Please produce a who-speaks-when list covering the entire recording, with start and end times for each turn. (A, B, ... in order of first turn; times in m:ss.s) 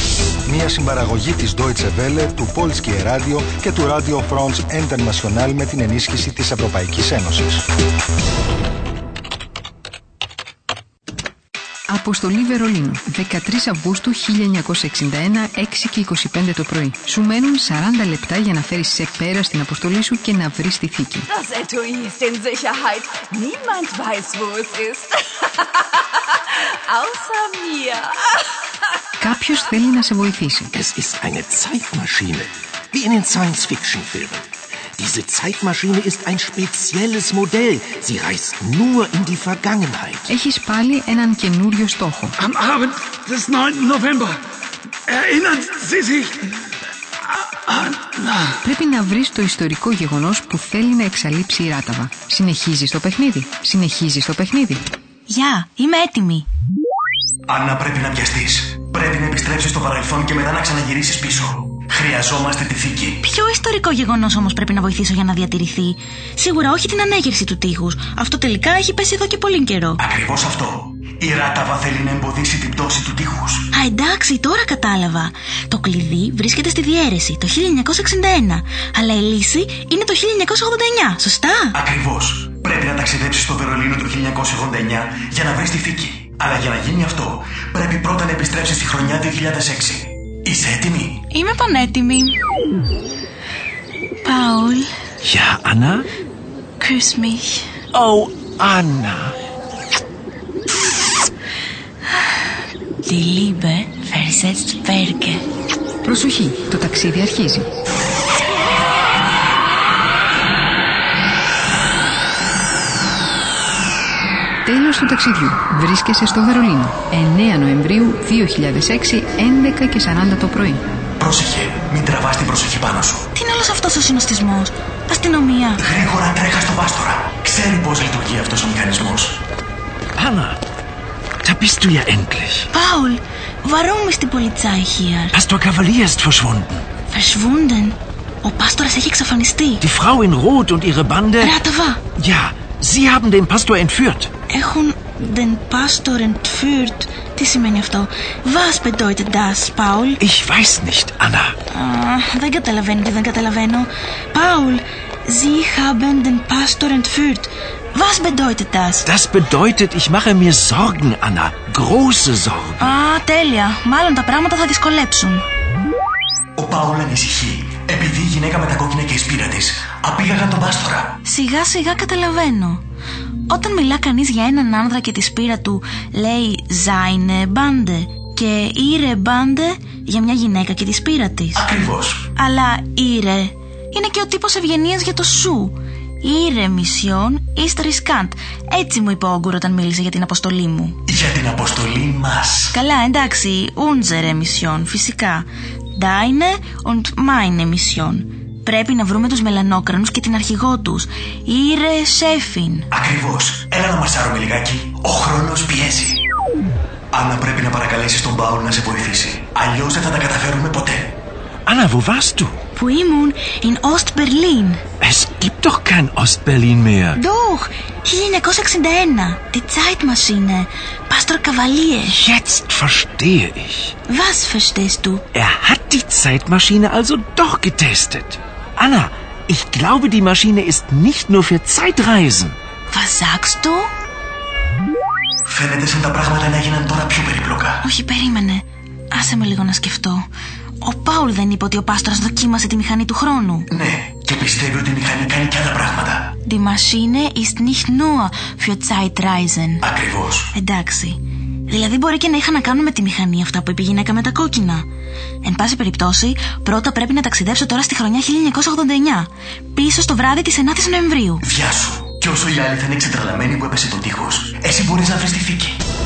0:00.5-0:07.6 A
0:11.9-0:21.3 B
0:21.3-0:25.8 C
0:26.5-0:28.3 C
0:29.2-0:30.7 B
0:30.7-0:34.5 D
0:35.0-0:40.3 D
0:40.3-0:42.4 B
0:42.4-0:44.4 E
0:45.1-0:46.4 E
0:47.7-0:48.2 E
0:48.6-0:54.8 B
0:55.3-0:56.5 F
0:57.5-1:03.2 G
1:03.2-1:10.0 F
1:10.0-1:13.7 G
1:13.7-1:21.8 F
1:21.8-1:31.2 G
1:31.3-1:32.4 F
1:34.2-1:34.9 F
1:35.2-1:36.1 D
1:36.8-1:37.7 F
1:37.9-1:39.4 D
1:43.0-1:45.4 F
1:46.0-1:47.7 B
1:54.6-2:00.8 B
2:01.2-2:03.3 G
2:03.3-2:05.8 F
2:05.8-2:09.4 G
2:10.2-2:10.6 D
2:11.4-2:12.7 D
2:12.7-2:15.4 F
2:15.3-2:16.8 D
2:17.1-2:19.8 F
2:19.8-2:21.6 D
2:21.4-2:22.0 F
2:22.2-2:24.3 D
2:24.5-2:30.2 F
2:30.2-2:31.6 D
2:31.7-2:39.0 F
2:39.0-2:43.0 D
2:42.8-2:45.4 F
2:46.6-2:51.2 G
2:51.2-2:52.8 F
2:53.5-3:01.7 F
3:01.6-3:02.3 G
3:02.4-3:11.0 F
3:11.1-3:12.7 G
3:12.7-3:22.9 F
3:22.9-3:26.2 G
3:27.1-3:31.2 G
3:31.7-3:32.6 D
3:32.7-3:34.8 F
3:35.0-3:37.2 D
3:37.2-3:42.2 F
3:42.1-3:43.9 D
3:44.1-3:45.2 F
3:45.3-3:52.6 D
3:52.9-3:53.9 F
3:55.4-3:57.8 G
3:57.8-4:00.3 F
4:00.8-4:03.7 F
4:03.7-4:06.3 G
4:06.4-4:09.8 F
4:09.8-4:10.5 G
4:10.5-4:14.9 F
4:15.4-4:21.4 F
4:21.4-4:25.8 G